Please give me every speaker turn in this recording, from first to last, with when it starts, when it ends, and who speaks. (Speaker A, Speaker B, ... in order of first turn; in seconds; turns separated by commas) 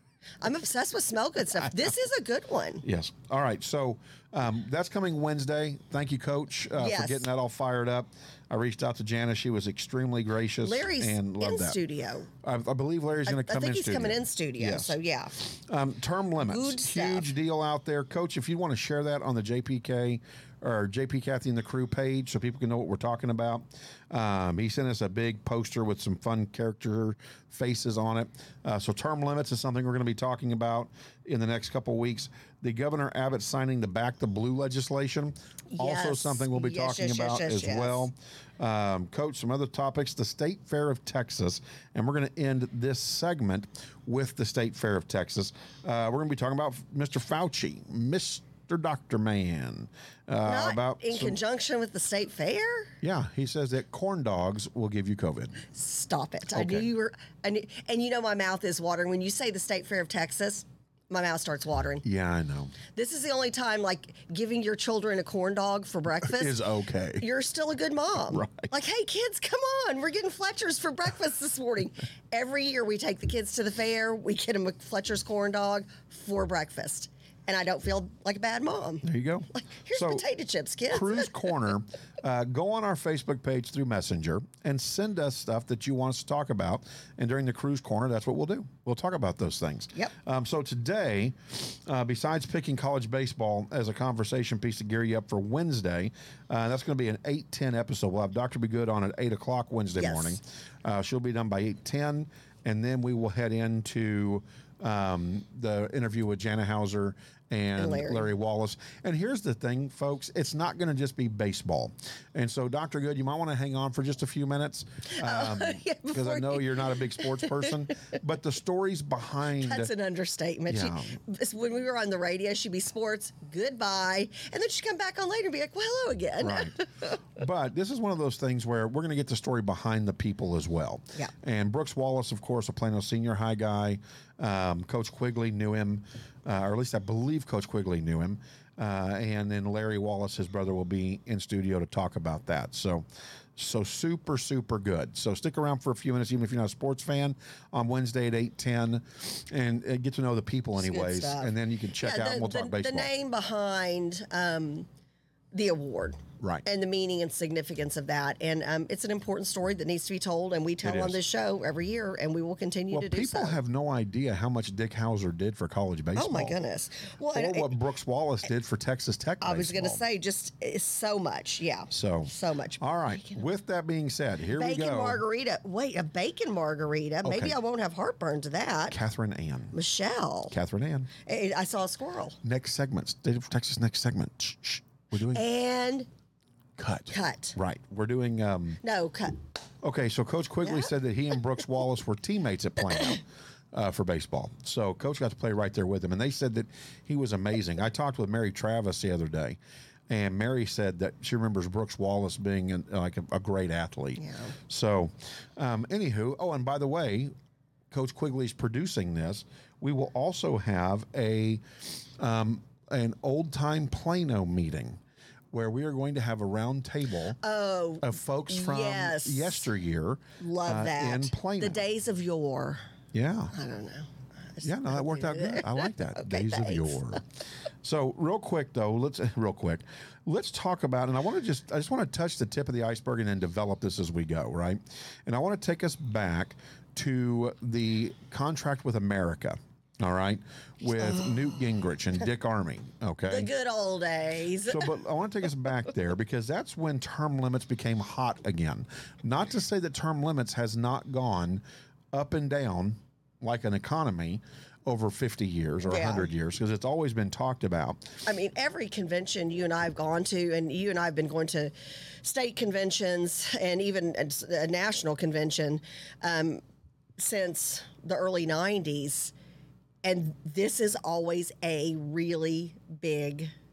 Speaker A: 0.4-2.9, Speaker B: 2.8-11.8, Speaker A: 6.8-7.2, Speaker A: 10.6-12.3, Speaker B: 12.4-51.4, Speaker A: 13.3-15.4, Speaker A: 16.4-17.3, Speaker A: 35.7-38.1, Speaker A: 50.4-52.9, Speaker B: 53.0-55.6, Speaker A: 55.7-62.0, Speaker B: 56.5-56.9, Speaker B: 62.0-62.8, Speaker A: 62.9-66.6, Speaker B: 66.2-67.3, Speaker A: 67.2-81.3, Speaker B: 68.2-68.7, Speaker B: 79.0-80.2, Speaker B: 80.9-119.9, Speaker A: 100.0-100.4, Speaker A: 107.8-108.3, Speaker A: 115.1-118.2, Speaker A: 119.6-127.2, Speaker B: 120.7-121.1, Speaker B: 126.4-126.8, Speaker B: 127.3-143.1, Speaker B: 143.6-153.1, Speaker A: 150.8-154.9, Speaker A: 155.5-163.6, Speaker B: 160.8-161.2, Speaker B: 162.9-166.6, Speaker A: 166.2-167.7, Speaker B: 167.3-170.0, Speaker A: 169.4-173.4, Speaker B: 171.9-175.2, Speaker A: 174.5-179.0, Speaker B: 177.2-177.5, Speaker B: 178.9-179.8, Speaker A: 179.7-180.6, Speaker B: 180.5-181.1, Speaker A: 181.2-182.4, Speaker B: 182.4-185.4, Speaker A: 185.3-186.1, Speaker B: 186.8-188.8, Speaker A: 187.1-187.6, Speaker A: 188.8-189.4, Speaker B: 189.8-199.6, Speaker A: 190.6-190.9, Speaker B: 200.1-207.3, Speaker A: 204.2-204.5, Speaker B: 207.9-211.6, Speaker B: 212.2-215.0, Speaker B: 215.5-217.4, Speaker A: 217.4-219.7, Speaker B: 218.0-221.8, Speaker A: 220.4-222.8, Speaker B: 223.1-223.5, Speaker A: 223.5-227.2, Speaker B: 224.6-227.2, Speaker B: 227.8-243.5, Speaker A: 243.3-244.9, Speaker B: 244.7-258.1, Speaker A: 255.8-256.3, Speaker A: 258.2-266.6, Speaker A: 267.2-269.3, Speaker A: 270.0-273.5